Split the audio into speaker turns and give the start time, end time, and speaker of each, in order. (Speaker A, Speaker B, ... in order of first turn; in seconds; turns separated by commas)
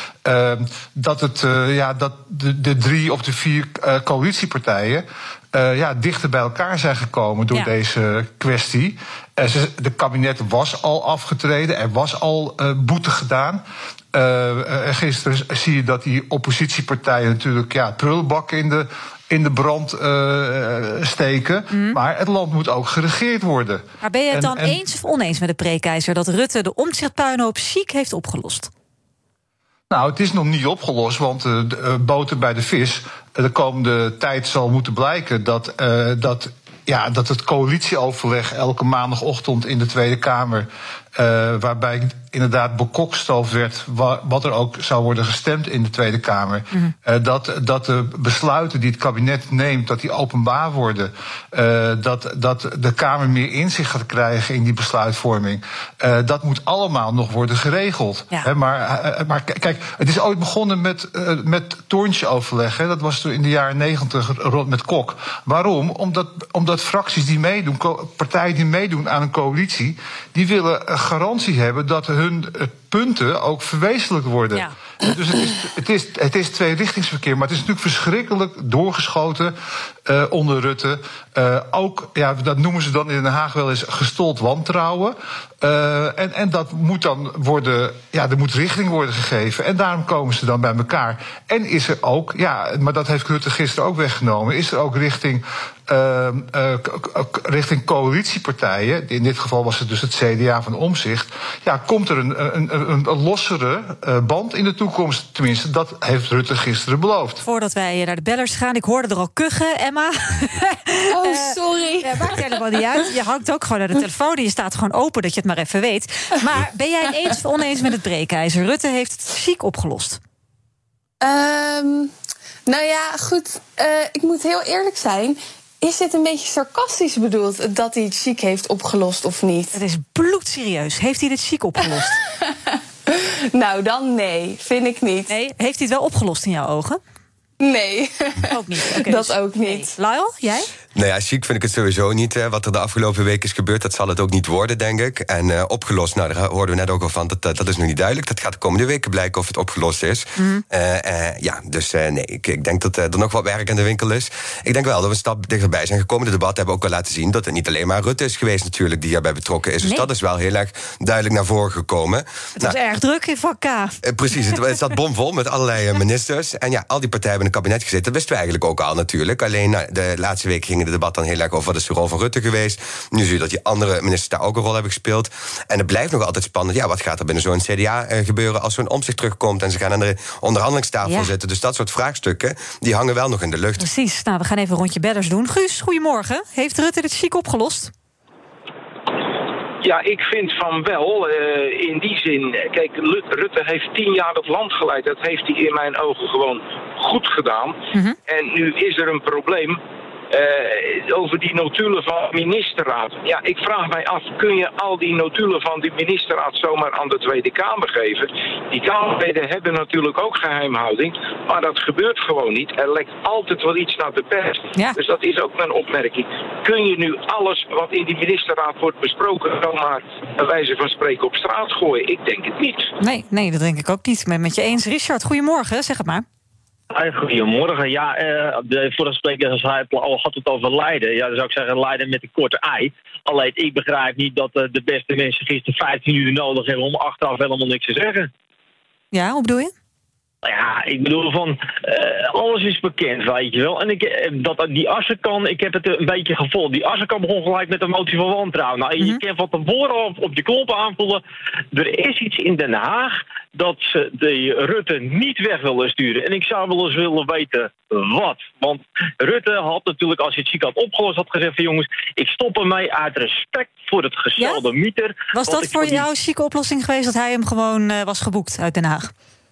Speaker A: 0.2-24.8, Speaker B: 21.7-22.0, Speaker B: 24.0-28.7, Speaker A: 29.9-107.4, Speaker B: 107.4-120.2, Speaker C: 111.1-112.5, Speaker C: 121.2-122.1, Speaker C: 122.7-129.8, Speaker B: 129.7-132.2, Speaker C: 132.5-135.3, Speaker B: 135.3-137.0, Speaker C: 137.6-139.9, Speaker B: 138.5-140.7, Speaker D: 140.9-162.8, Speaker B: 150.4-150.7, Speaker B: 162.6-164.0, Speaker D: 164.0-183.9, Speaker B: 181.0-181.3, Speaker B: 183.8-187.9, Speaker E: 189.8-199.8, Speaker E: 200.3-222.9, Speaker B: 223.0-226.2, Speaker F: 226.9-238.3, Speaker B: 239.1-239.7, Speaker F: 240.4-266.1, Speaker B: 265.3-269.1